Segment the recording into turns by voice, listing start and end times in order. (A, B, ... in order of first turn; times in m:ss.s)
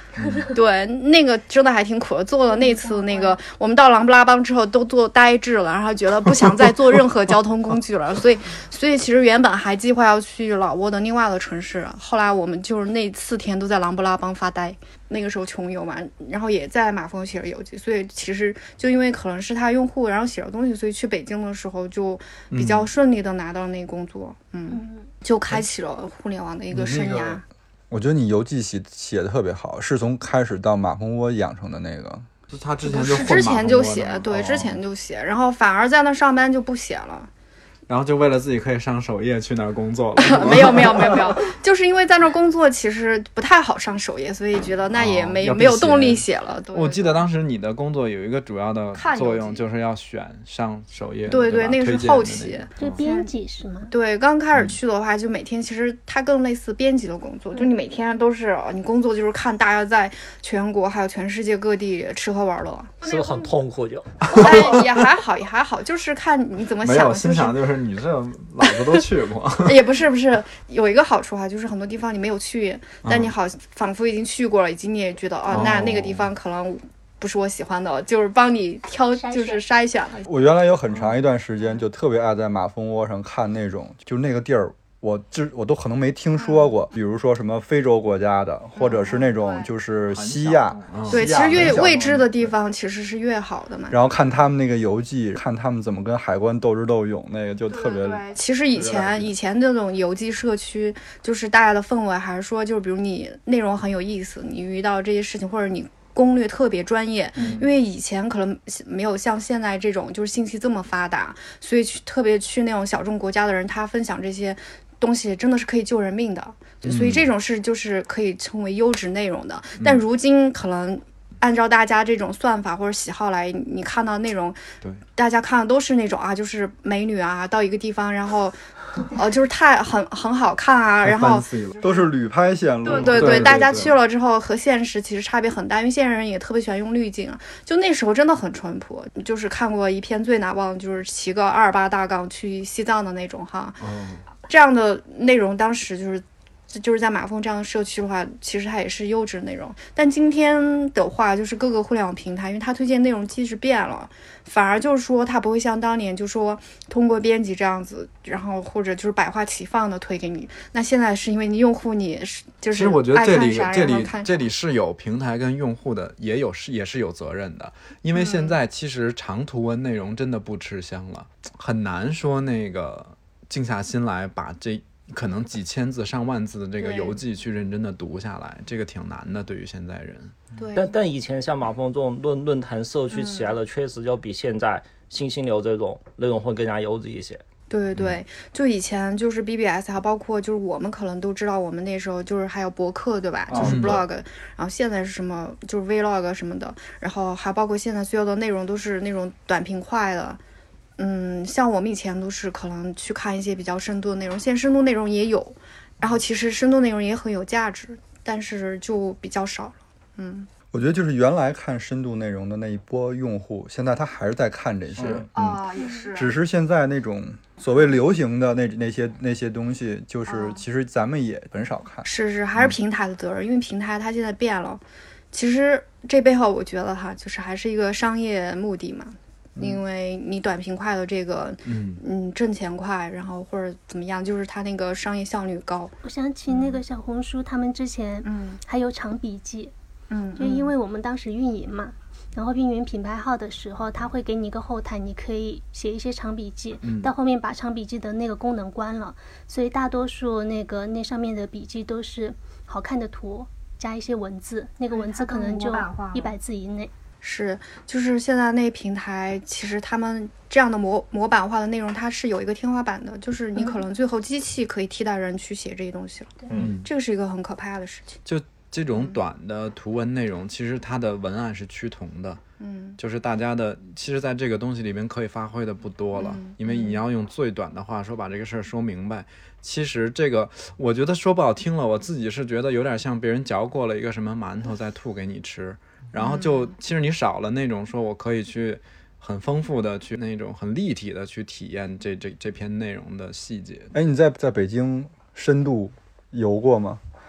0:00.5-0:27.4 A
0:02.5-0:03.4 B
0:22.5-0:22.9 C
0:24.7-0:25.1 B
0:26.7-0:32.3 D
0:32.5-0:34.8 C
0:32.9-0:37.3 A
0:37.9-0:41.3 C
0:40.2-0:47.2 A
0:44.9-0:53.0 C
0:48.9-0:49.6 A
0:51.3-0:53.3 A
0:52.8-0:53.9 B
0:53.9-1:03.5 A
1:03.0-1:04.2 E
1:04.3-1:04.9 C
1:04.3-1:07.6 A
1:06.8-1:10.0 C
1:08.6-1:09.0 A
1:09.6-1:20.3 A
1:13.0-1:13.3 C
1:15.5-1:16.3 C
1:19.1-1:19.6 B
1:20.2-1:32.5 D
1:26.4-1:26.7 A
1:28.7-1:29.7 A
1:30.1-1:31.8 C
1:31.1-1:34.0 A
1:33.9-1:39.3 D
1:37.7-2:04.6 A
1:47.4-1:47.6 D
1:56.9-1:57.3 C
2:05.2-2:12.1 A
2:11.0-2:11.8 C
2:11.8-2:13.9 D
2:12.8-2:23.8 A
2:12.9-2:13.9 C
2:23.8-2:24.2 C
2:24.5-2:44.4 A
2:42.7-3:00.4 C
2:48.1-2:48.6 A
2:56.8-2:57.2 A
3:00.6-3:00.9 A
3:00.7-3:07.4 E
3:03.1-3:03.6 A
3:07.7-3:20.4 A
3:13.5-3:14.0 D
3:13.6-3:14.0 C
3:21.0-3:30.5 A
3:30.7-3:35.6 D
3:35.4-3:36.4 A
3:36.1-3:42.1 D
3:40.3-3:40.6 A
3:42.0-3:44.8 A
3:45.3-3:55.9 A
3:51.6-3:52.0 C
3:56.0-3:59.7 B
3:56.5-3:56.8 A
3:58.2-3:58.6 A
4:00.1-4:00.7 A
4:00.4-4:16.9 B
4:06.8-4:07.1 C
4:14.9-4:16.4 A
4:17.2-4:28.2 A
4:26.5-4:26.9 C
4:28.2-4:32.4 C
4:32.6-4:33.0 A
4:33.0-4:53.9 C
4:36.1-4:37.0 A
4:46.2-4:46.7 A
4:53.9-4:57.0 D